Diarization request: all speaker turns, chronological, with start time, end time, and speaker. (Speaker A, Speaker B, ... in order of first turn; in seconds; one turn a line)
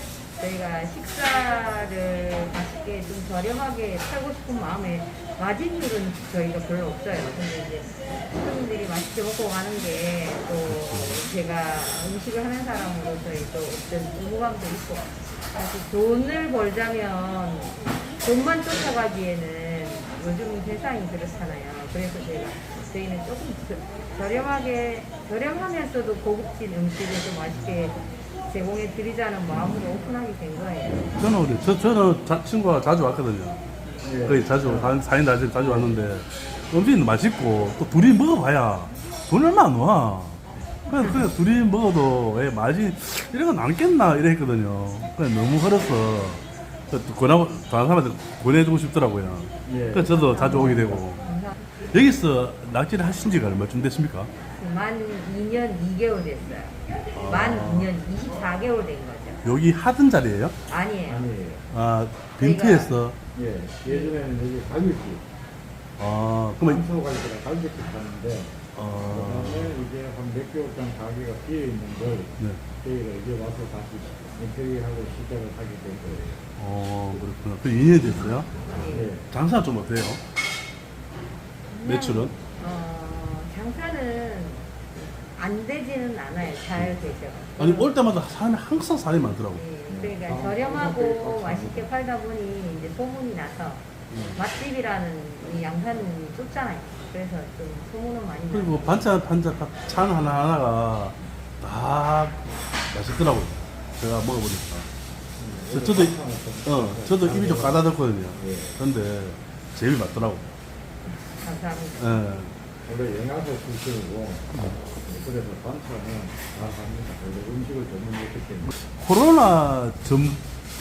Speaker A: 0.4-31.1
Speaker B: 10.7-11.2
Speaker B: 31.0-33.6
Speaker C: 34.0-34.9
Speaker B: 34.2-51.3
Speaker C: 35.6-35.9
Speaker C: 49.6-50.9
Speaker A: 50.2-51.6
Speaker B: 51.9-54.3
Speaker A: 54.5-59.5
Speaker B: 57.1-57.9
Speaker B: 59.4-60.5
Speaker A: 60.7-61.3
Speaker C: 61.1-61.6
Speaker B: 61.7-63.2
Speaker A: 62.4-63.0
Speaker C: 63.3-65.2
Speaker A: 63.9-64.2
Speaker B: 66.0-66.8
Speaker C: 66.6-76.4
Speaker B: 68.7-69.8
Speaker B: 76.6-78.6
Speaker A: 78.7-79.1
Speaker C: 78.8-79.3
Speaker B: 79.2-80.2
Speaker A: 81.7-87.9
Speaker B: 81.8-82.3
Speaker B: 86.8-87.0
Speaker B: 87.6-89.6
Speaker A: 89.5-99.1
Speaker C: 89.9-91.8
Speaker B: 94.1-94.4
Speaker B: 98.5-104.9
Speaker C: 105.4-108.8
Speaker B: 105.7-110.5
Speaker A: 111.1-112.2
Speaker B: 112.0-112.5
Speaker C: 112.8-118.7
Speaker B: 118.8-120.4